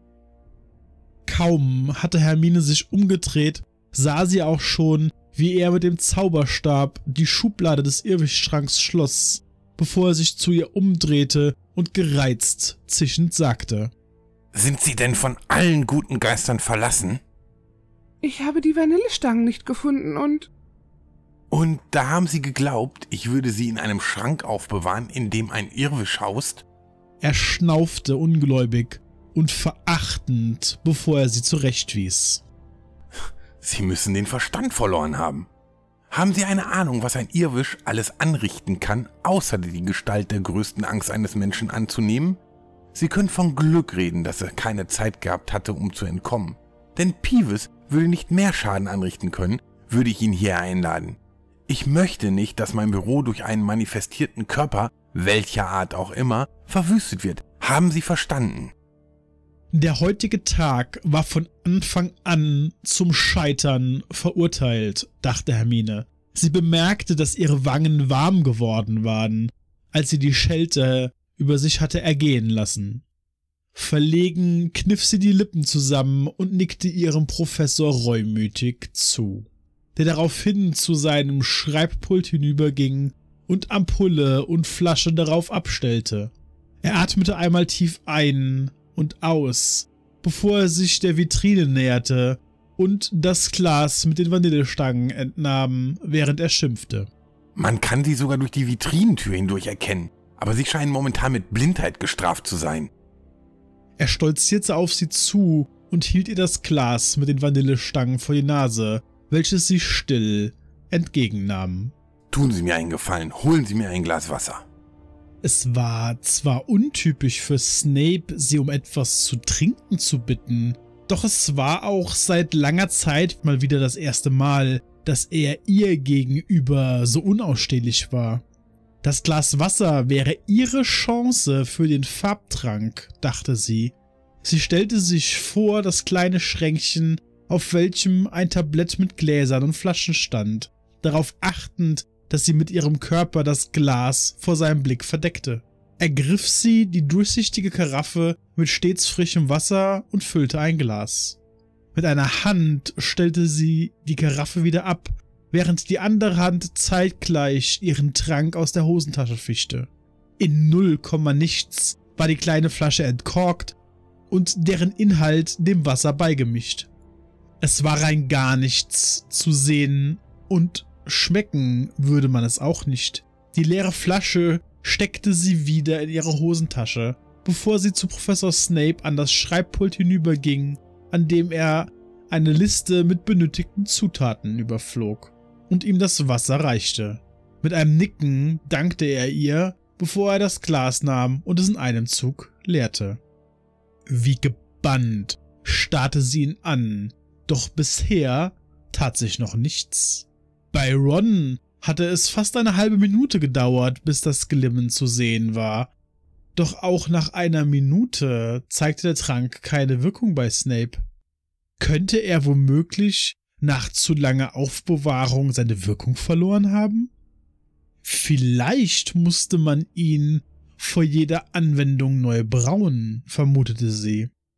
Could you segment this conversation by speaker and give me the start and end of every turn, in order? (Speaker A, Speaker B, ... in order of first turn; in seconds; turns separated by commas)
Speaker A: 1.2-13.9, Speaker B: 14.5-17.2, Speaker C: 18.2-20.5, Speaker B: 21.5-26.6, Speaker A: 27.2-32.4, Speaker B: 33.2-35.5, Speaker B: 36.1-42.4, Speaker B: 42.9-58.7, Speaker A: 59.7-73.0, Speaker A: 73.7-86.3, Speaker A: 86.8-97.1, Speaker B: 97.5-102.9, Speaker A: 104.0-111.9, Speaker B: 112.3-114.6, Speaker A: 115.4-128.4, Speaker A: 129.0-151.4, Speaker A: 151.9-163.8, Speaker A: 164.3-166.9, Speaker A: 167.6-193.2, Speaker A: 194.1-205.9, Speaker A: 206.5-211.0, Speaker A: 211.8-217.1, Speaker A: 218.0-224.3